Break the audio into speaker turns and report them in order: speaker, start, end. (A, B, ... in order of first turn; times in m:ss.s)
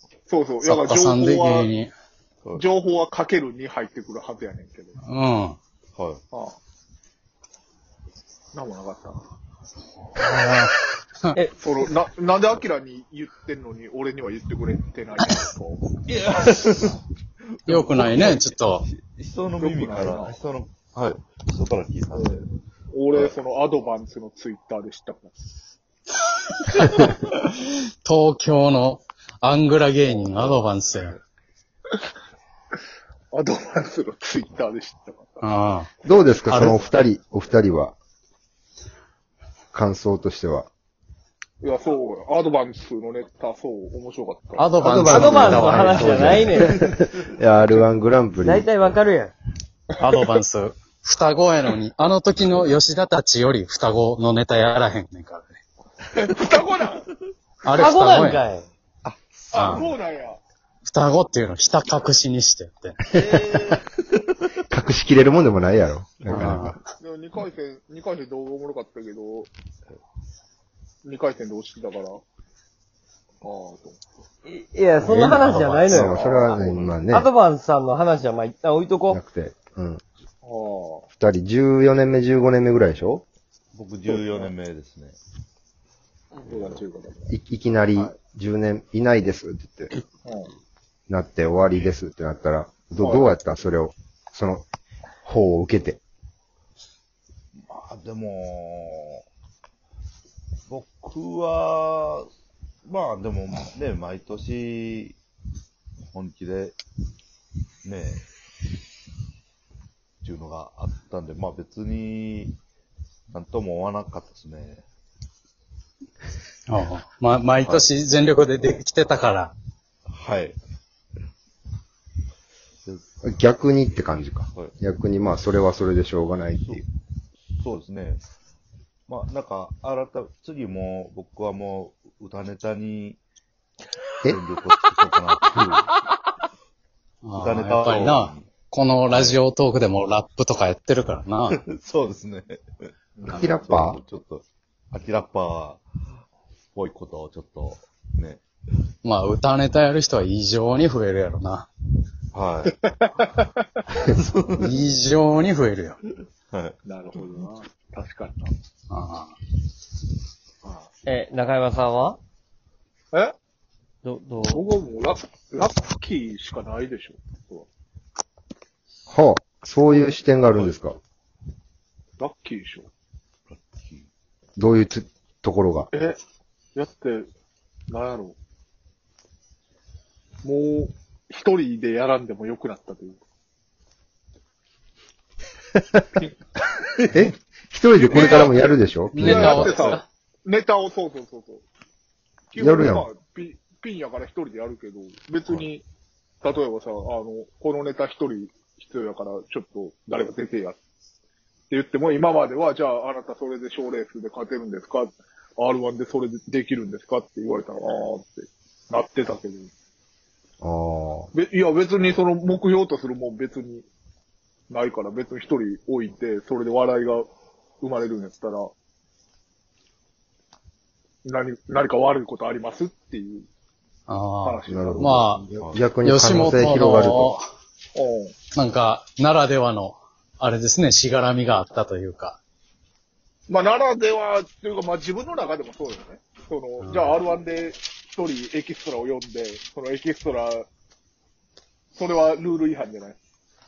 0:00.3-0:01.7 A
0:00.6-0:01.9 B
0:02.6-0:04.9 A
0:05.0-0:05.6 B
0:05.9-0:06.2 C
0:08.5-0:09.2 A
0:10.2-0:11.4 B
0:11.6-0:15.9 A
0:16.1-0:17.0 C
0:17.6-0:22.4 C
0:17.7-0:18.9 B
0:19.6-0:20.4 A
0:22.1-0:25.4 A
0:26.8-0:27.4 B
0:28.0-0:31.2 B
0:30.2-0:31.2 C
0:33.3-0:35.4 A
0:35.4-0:35.9 B
0:36.0-0:38.0 D
0:36.5-0:36.8 B
0:39.7-0:40.7 D
0:41.6-0:44.8 A
0:44.6-0:46.5 B
0:44.8-0:48.7 D
0:45.0-0:46.8 E
0:48.4-0:49.3 E
0:50.0-0:55.5 B
0:56.1-0:57.1 A
0:57.6-0:58.4 B
0:57.8-0:58.7 E
0:59.0-0:59.9 C
0:59.5-1:00.4 A
0:59.5-0:59.8 B
1:00.8-1:03.0 B
1:03.1-1:04.1 C
1:03.2-1:03.8 D
1:04.7-1:06.8 D
1:06.3-1:06.9 B
1:07.0-1:09.5 A
1:11.0-1:12.2 A
1:13.4-1:14.0 A
1:14.4-1:19.2 E
1:15.0-1:16.1 B
1:15.9-1:17.3 D
1:16.2-1:16.5 A
1:19.1-1:20.0 D
1:20.4-1:21.0 A
1:21.1-1:23.2 D
1:23.7-1:25.2 C
1:24.1-1:24.5 A
1:26.4-1:27.3 A
1:26.5-1:26.8 C
1:27.3-1:29.9 D
1:30.2-1:30.5 A
1:31.1-1:34.6 D
1:33.0-1:33.3 A
1:35.2-1:36.0 D
1:37.6-1:39.2 C
1:40.7-1:42.3 C
1:42.9-1:45.2 C
1:46.1-1:46.8 C
1:47.8-1:48.2 C
1:50.2-1:52.6 C
1:53.3-1:54.8 C
1:56.7-1:59.5 B
1:57.6-1:57.9 C
2:00.1-2:00.6 C
2:03.2-2:06.8 D
2:06.6-2:06.8 C
2:07.6-2:08.2 C
2:09.1-2:13.2 C
2:14.2-2:15.6 C
2:15.6-2:15.8 D
2:17.2-2:21.6 B
2:17.4-2:18.6 C
2:19.1-2:19.4 C
2:21.5-2:22.6 C
2:23.2-2:23.5 A
2:23.2-2:25.8 C
2:23.2-2:24.0 D
2:26.8-2:28.4 C
2:29.0-2:31.7 B
2:32.3-2:32.8 C
2:32.8-2:33.6 A
2:33.9-2:34.8 C
2:34.6-2:36.0 B
2:36.5-2:36.8 C
2:36.9-2:38.5 A
2:38.9-2:39.3 B
2:41.0-2:42.2 E
2:44.0-2:44.6 E
2:44.4-2:47.7 A
2:49.1-2:51.0 D
2:49.9-2:50.7 A
2:52.2-2:52.9 A
2:53.5-2:54.1 C
2:54.6-2:55.9 D
2:55.9-2:56.2 A
2:56.8-2:57.3 A
2:57.9-2:58.4 A
3:00.4-3:03.2 A
3:05.8-3:06.1 D
3:07.1-3:10.0 D
3:08.0-3:11.6 A
3:08.2-3:08.4 B
3:09.1-3:10.1 B
3:12.5-3:15.8 A
3:12.6-3:13.1 D
3:16.4-3:20.8 A
3:21.7-3:29.7 A
3:30.6-3:31.3 D
3:31.3-3:33.9 A
3:34.7-3:37.3 A
3:37.8-3:38.7 A
3:41.2-3:43.5 A
3:44.1-3:45.5 B
3:44.4-3:45.3 A
3:44.7-3:47.4 D
3:45.6-3:46.0 C
3:46.0-3:47.4 B
3:47.9-3:48.4 A
3:48.5-3:52.4 B
3:53.5-4:00.7 A
3:56.8-3:57.2 B
4:01.9-4:03.2 A